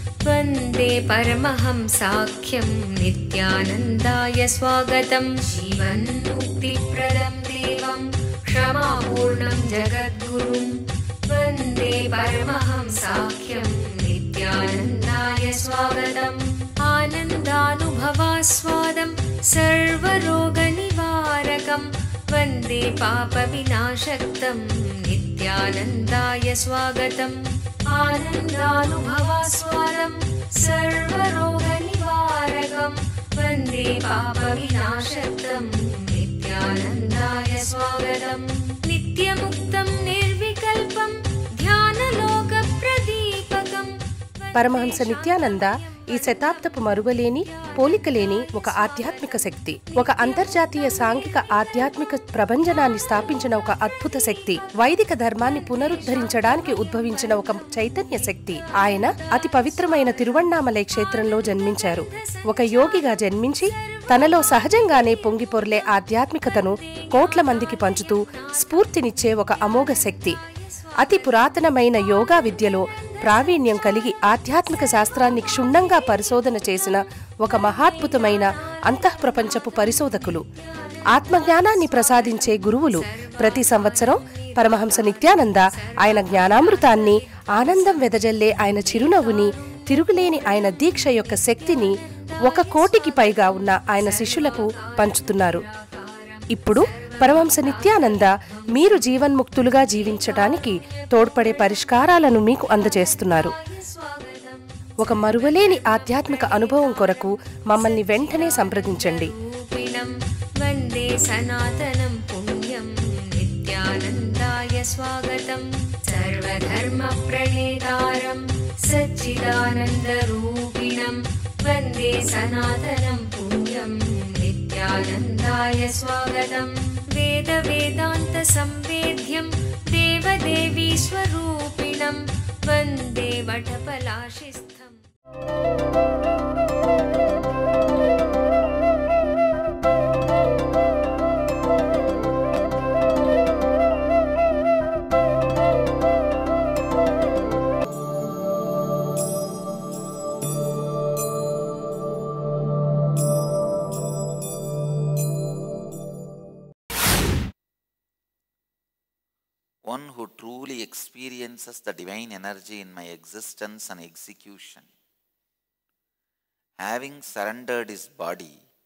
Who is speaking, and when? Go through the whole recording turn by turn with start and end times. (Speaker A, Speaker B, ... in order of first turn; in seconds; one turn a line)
Speaker A: 0.2-52.0
Speaker B: 44.5-70.4
Speaker A: 52.7-65.7
Speaker A: 66.5-71.5
Speaker B: 71.0-80.4
Speaker A: 72.1-76.7
Speaker A: 77.5-91.9
Speaker B: 81.1-91.9
Speaker B: 92.5-95.6
Speaker A: 92.5-135.0
Speaker B: 96.5-103.5
Speaker B: 105.0-109.3
Speaker C: 159.8-164.9
Speaker C: 166.8-168.6